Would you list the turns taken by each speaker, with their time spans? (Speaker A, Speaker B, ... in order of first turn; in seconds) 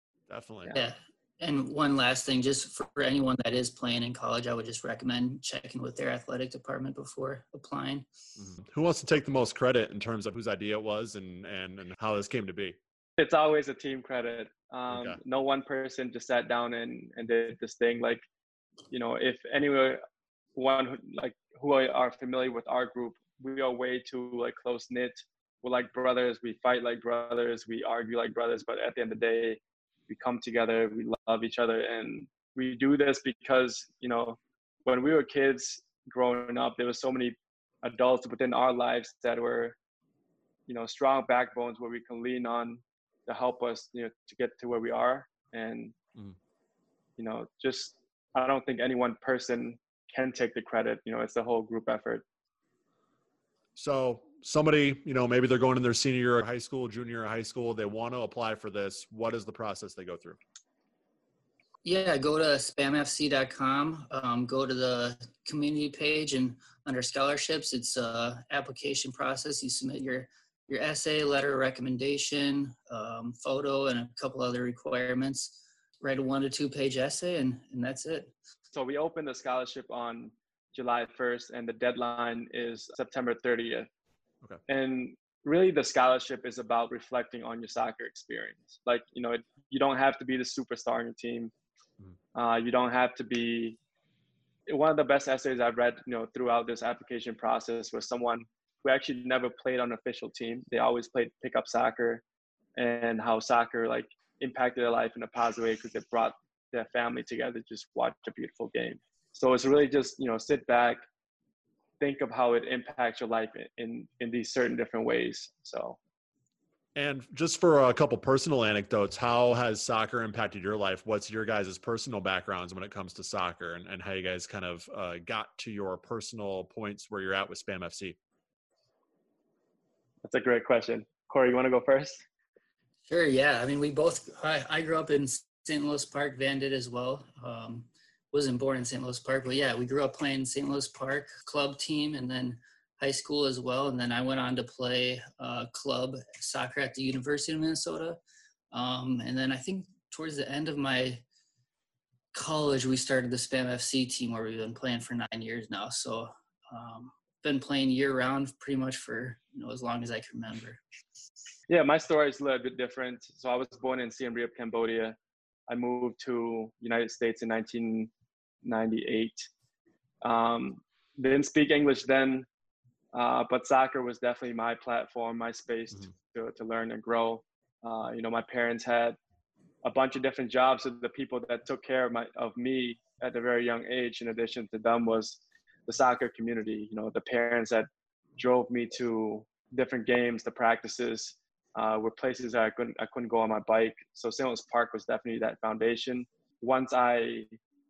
Speaker A: 0.3-0.7, 8.4-12.8, 14.9-15.2, 53.8-60.4, 117.0-128.2
Speaker B: 0.7-8.1, 61.8-78.3, 133.1-148.2, 148.7-151.2, 152.3-160.8
Speaker C: 13.2-18.2, 18.9-20.0, 20.6-39.7, 40.7-45.9, 47.2-52.2, 78.7-83.9, 84.7-91.5, 92.3-93.8, 94.7-102.2, 102.8-111.0, 112.0-116.0, 130.2-132.2, 161.7-165.2, 165.7-168.1, 168.6-169.5, 170.2-172.5, 173.1-179.2, 179.8-197.5